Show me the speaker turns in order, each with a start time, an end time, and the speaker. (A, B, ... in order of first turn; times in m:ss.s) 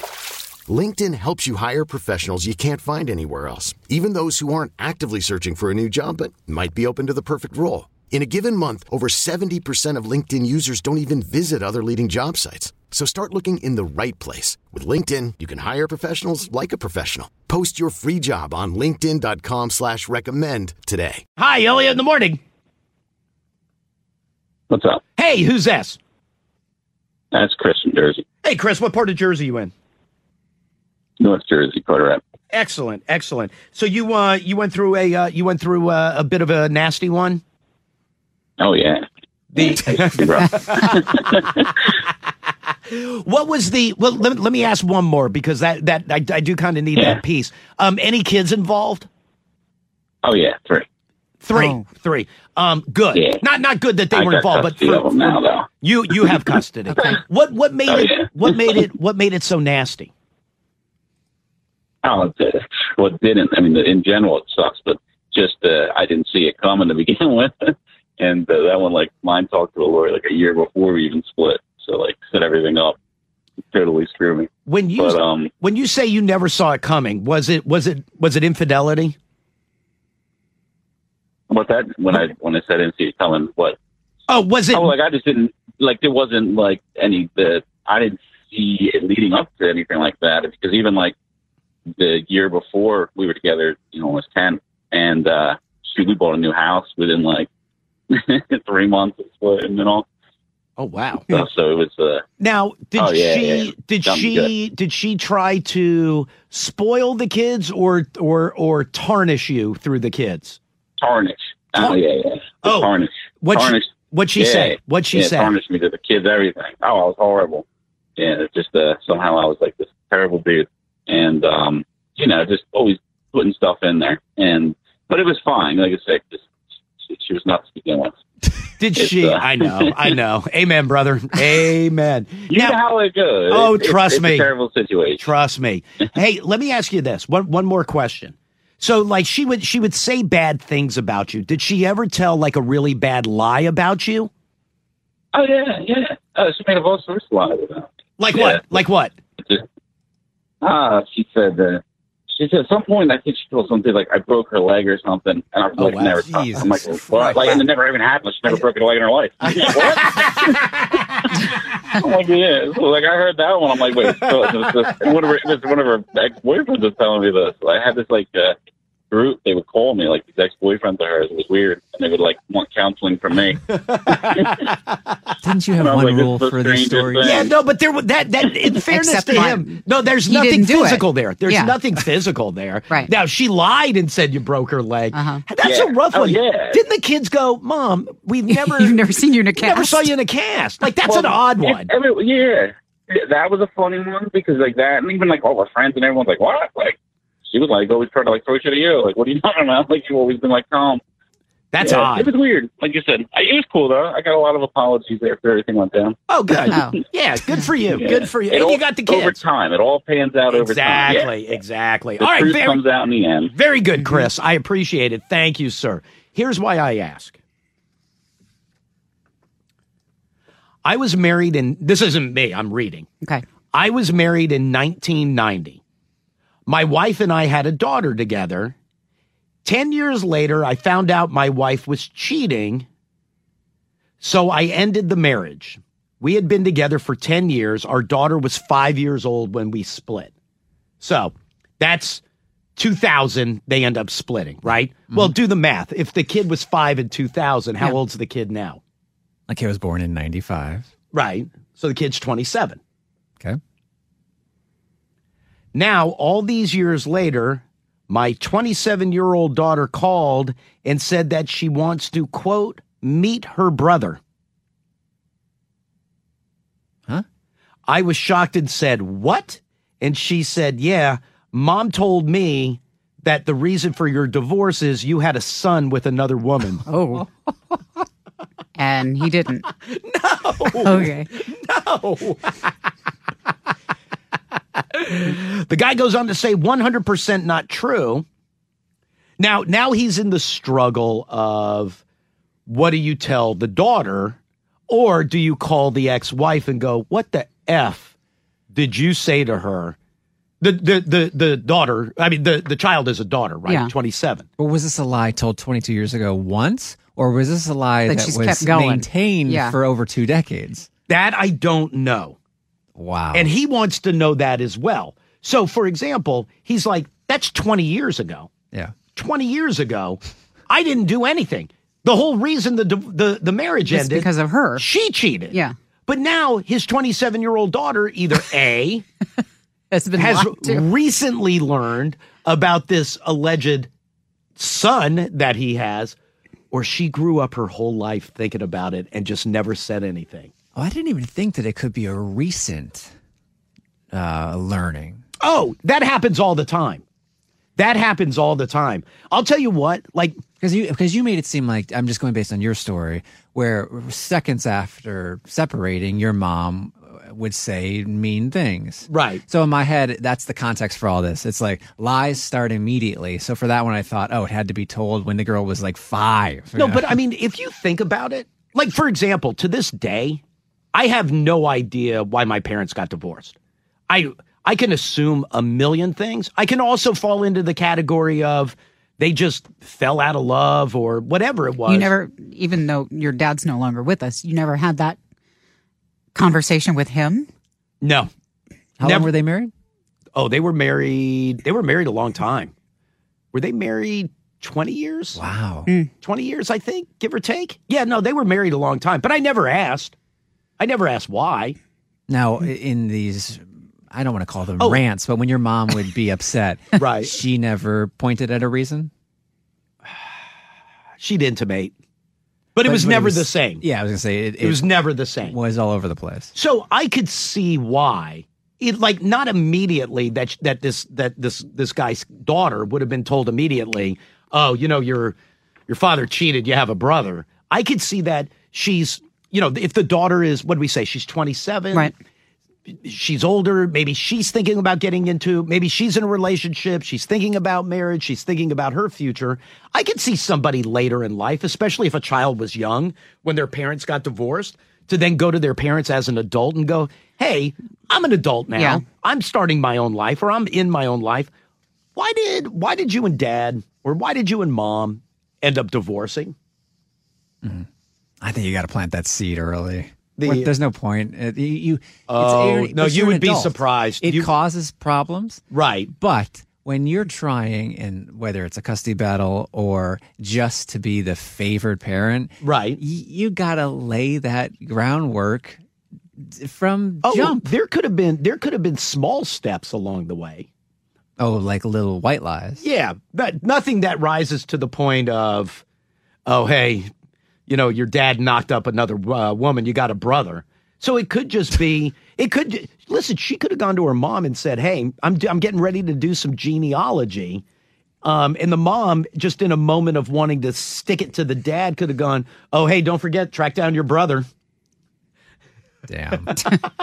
0:00.7-0:21.2 A
0:21.4-0:22.4 B
0:24.7-0:25.0 C
0:25.2-0:26.0 B
0:27.3-0:28.2 C
0:28.4-0:29.7 B
0:31.2-0:32.2 C
0:32.5-0:37.4 B
0:38.6-0:39.0 C
0:39.5-0:41.5 B
0:39.6-0:41.9 C
0:42.9-0:49.1 B
0:50.2-0:50.9 C
0:51.4-1:00.1 B
0:51.5-0:51.8 D
0:53.1-0:53.4 C
0:54.1-0:56.5 C
0:56.9-0:57.2 D
0:57.9-0:58.8 C
1:02.0-1:13.0 C
1:13.7-1:15.5 C
1:14.7-1:19.2 B
1:21.5-1:23.8 C
1:24.3-1:24.9 B
1:24.7-1:31.2 C
1:32.0-1:37.5 C
1:38.1-1:40.0 C
1:40.8-1:41.3 B
1:41.3-1:42.2 C
1:42.4-1:50.6 B
1:43.0-1:44.5 C
1:51.0-1:57.6 C
1:52.6-1:52.9 B
1:53.4-1:55.5 B
1:58.2-2:06.5 C
2:07.0-2:08.2 C
2:08.8-2:12.8 B
2:09.0-2:10.1 C
2:12.5-2:15.3 C
2:13.5-2:14.5 B
2:15.2-2:24.3 B
2:25.3-2:28.8 C
2:28.2-2:29.1 B
2:30.6-2:48.6 C
2:35.8-2:37.6 B
2:36.6-2:37.6 E
2:39.4-2:41.3 B
2:44.2-2:44.9 B
2:49.1-2:54.6 C
2:53.7-2:55.3 B
2:55.4-2:57.4 E
2:55.8-2:57.5 C
2:57.2-3:11.9 B
2:58.7-3:01.8 D
3:05.1-3:05.4 D
3:05.6-3:06.8 C
3:08.5-3:10.1 D
3:11.0-3:17.0 C
3:17.5-3:21.0 C
3:21.7-3:22.3 B
3:21.8-3:26.8 C
3:26.3-3:29.4 B
3:26.7-3:27.0 D
3:28.0-3:31.3 C
3:30.5-3:32.8 B
3:32.2-3:33.5 C
3:33.5-3:37.4 B
3:34.0-3:34.3 D
3:40.8-3:43.1 B
3:43.7-3:45.8 B
3:46.7-3:48.8 B
3:49.6-3:52.9 B
3:54.2-4:00.3 B
4:01.0-4:02.2 B
4:02.8-4:08.8 B
4:09.5-4:10.9 E
4:11.1-4:12.8 B
4:15.7-4:24.2 B
4:27.9-4:36.8 B
4:36.9-4:37.3 D
4:38.8-4:39.7 D
4:39.9-4:42.6 B
4:40.8-4:41.3 D
4:44.8-4:48.3 B
4:49.4-4:52.0 B
4:52.7-4:54.4 B
4:54.9-4:58.1 B
4:58.7-5:00.0 B
5:00.6-5:04.5 B
5:03.7-5:03.9 D
5:04.6-5:10.9 E
5:08.1-5:09.8 D
5:11.1-5:12.4 B
5:13.0-5:13.5 E
5:13.3-5:18.5 B
5:19.1-5:25.6 B
5:23.9-5:24.9 D
5:26.1-5:29.1 B
5:29.9-5:30.9 D
5:30.2-5:33.9 B
5:34.6-5:36.2 B
5:36.7-5:40.5 B
5:40.8-5:43.1 E
5:44.1-5:45.2 E
5:45.4-5:47.0 B
5:47.8-5:50.4 B
5:50.6-6:07.1 E
5:59.1-5:59.4 B
6:06.8-6:10.4 B
6:10.9-6:13.6 B
6:14.1-6:22.1 B
6:21.9-6:25.2 D
6:26.3-6:27.5 D
6:28.0-6:28.3 B
6:29.0-6:29.7 E
6:29.0-6:29.3 B
6:30.3-6:32.7 B
6:33.5-6:35.4 B
6:35.4-6:35.9 E
6:36.2-6:40.2 B
6:40.8-6:41.8 B
6:42.3-6:49.1 E
6:47.0-6:47.4 B
6:51.2-6:51.9 B
6:52.8-6:53.8 B
6:52.8-6:54.9 E
6:54.6-6:55.6 B
6:55.4-6:56.5 E
6:56.6-7:05.4 B
7:05.9-7:12.1 B
7:13.0-7:31.5 B
7:28.8-7:29.0 D
7:32.2-7:36.6 B
7:37.6-7:37.9 E
7:38.4-7:45.6 E
7:40.4-7:40.7 B
7:42.3-7:44.5 B
7:45.7-7:46.1 B
7:46.2-7:55.8 E
7:52.6-7:53.0 B
7:56.4-7:57.6 E
7:57.2-8:00.7 B
8:01.4-8:02.8 E
8:02.8-8:05.8 B
8:06.5-8:07.1 B
8:07.7-8:17.6 B
8:18.2-8:24.5 B
8:26.1-8:26.7 E